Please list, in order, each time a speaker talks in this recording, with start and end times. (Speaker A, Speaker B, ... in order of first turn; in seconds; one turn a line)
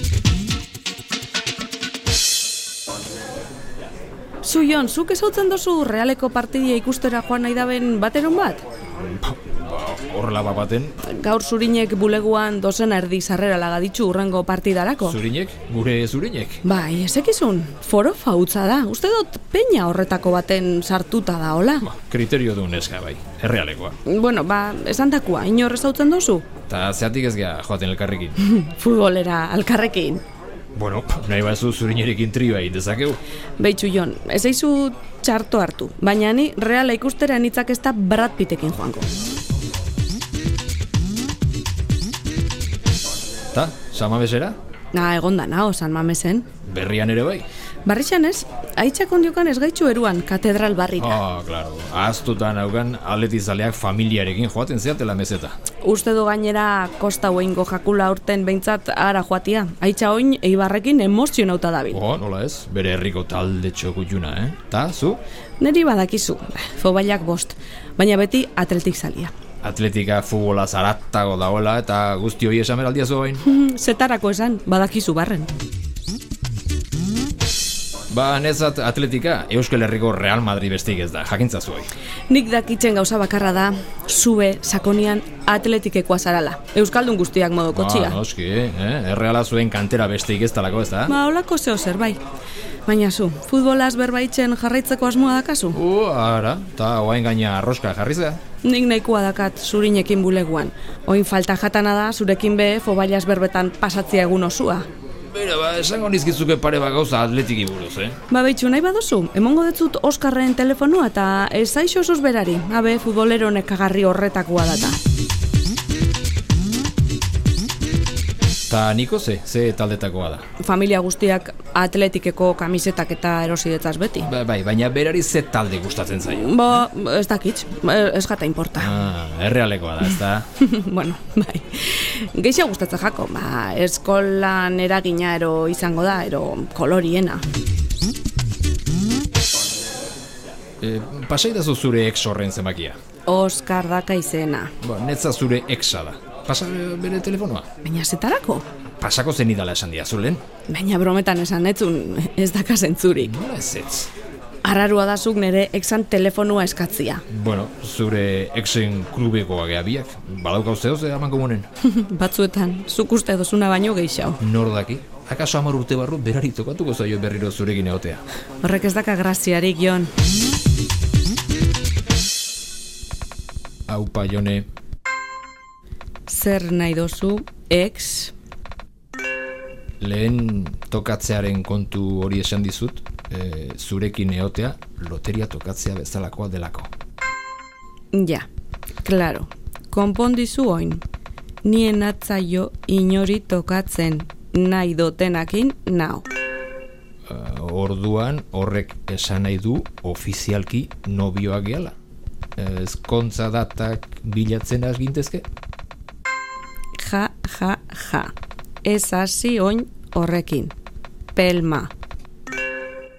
Speaker A: 4.4-8.7
Speaker B: 8.9-11.0
Speaker A: 11.0-15.2
Speaker B: 15.0-16.6
Speaker A: 16.6-21.9
Speaker B: 21.8-24.0
Speaker A: 24.1-26.5
Speaker B: 26.7-28.4
Speaker A: 28.4-30.2
Speaker B: 30.7-33.2
Speaker A: 33.6-39.1
Speaker B: 43.5-44.6
Speaker A: 44.9-46.5
Speaker B: 46.7-47.5
Speaker A: 47.8-51.2
Speaker B: 51.0-55.6
Speaker A: 55.8-62.0
Speaker B: 61.9-65.2
Speaker A: 65.6-69.3
Speaker B: 69.6-73.4
Speaker A: 73.4-75.5
Speaker B: 78.1-81.9
Speaker A: 82.3-88.2
Speaker B: 87.7-91.1
Speaker A: 91.1-92.2
Speaker A: 92.9-95.8
Speaker B: 95.7-98.4
Speaker A: 98.6-104.9
Speaker B: 105.3-108.2
Speaker A: 108.3-115.0
Speaker B: 118.7-120.5
Speaker A: 120.6-124.3
Speaker B: 124.3-126.9
Speaker A: 126.3-129.0
Speaker B: 128.8-130.5
Speaker A: 130.6-137.4
Speaker B: 140.8-143.0
Speaker A: 143.3-144.7
Speaker B: 144.8-147.7
Speaker A: 147.8-148.7
Speaker B: 149.0-150.4
Speaker A: 150.7-153.3
Speaker B: 153.2-154.1
Speaker A: 154.6-157.2
Speaker B: 157.3-161.7
Speaker A: 161.8-164.4
Speaker B: 164.4-168.2
Speaker A: 168.6-170.1
Speaker B: 173.9-174.7
Speaker A: 176.3-178.3
Speaker B: 180.0-186.9
Speaker A: 188.1-188.5
Speaker A: 189.0-191.0
Speaker A: 191.6-196.3
Speaker B: 197.3-201.9
Speaker B: 202.6-205.5
Speaker A: 207.0-210.8
Speaker A: 211.3-211.9